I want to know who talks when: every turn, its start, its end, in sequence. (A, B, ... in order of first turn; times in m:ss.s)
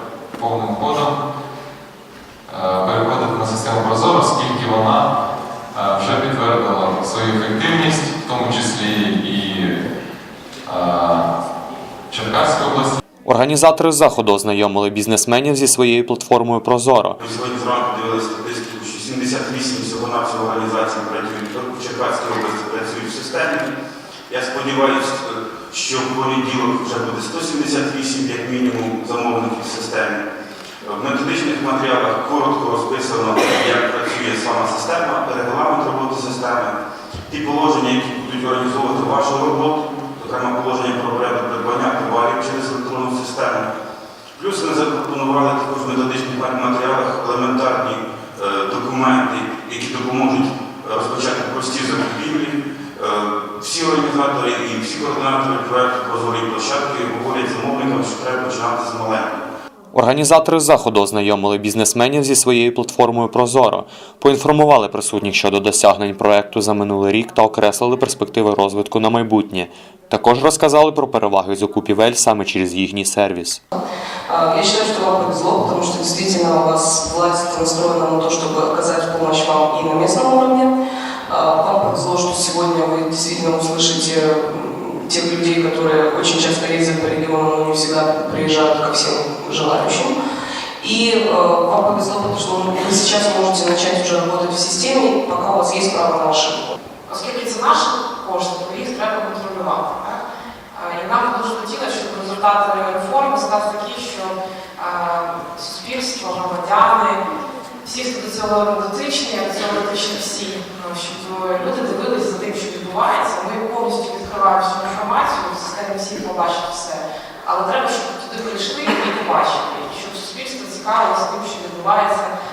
0:00.4-0:01.2 A
0:02.5-0:05.1 A
0:05.7-0:09.8 A
0:10.6-0:11.3 A
0:12.1-0:13.0 A
0:13.2-0:17.2 B
0:17.2-0:23.7 C
0:24.3-0:30.2 C
0:30.8-0:36.8 C
0:37.3-0:43.7 C
0:44.4-0:59.4 C
0:59.9-1:13.6 B
1:14.3-1:20.7 D
1:21.3-1:30.1 D
1:30.8-1:36.7 D
1:37.0-1:47.2 E
1:47.8-2:02.3 E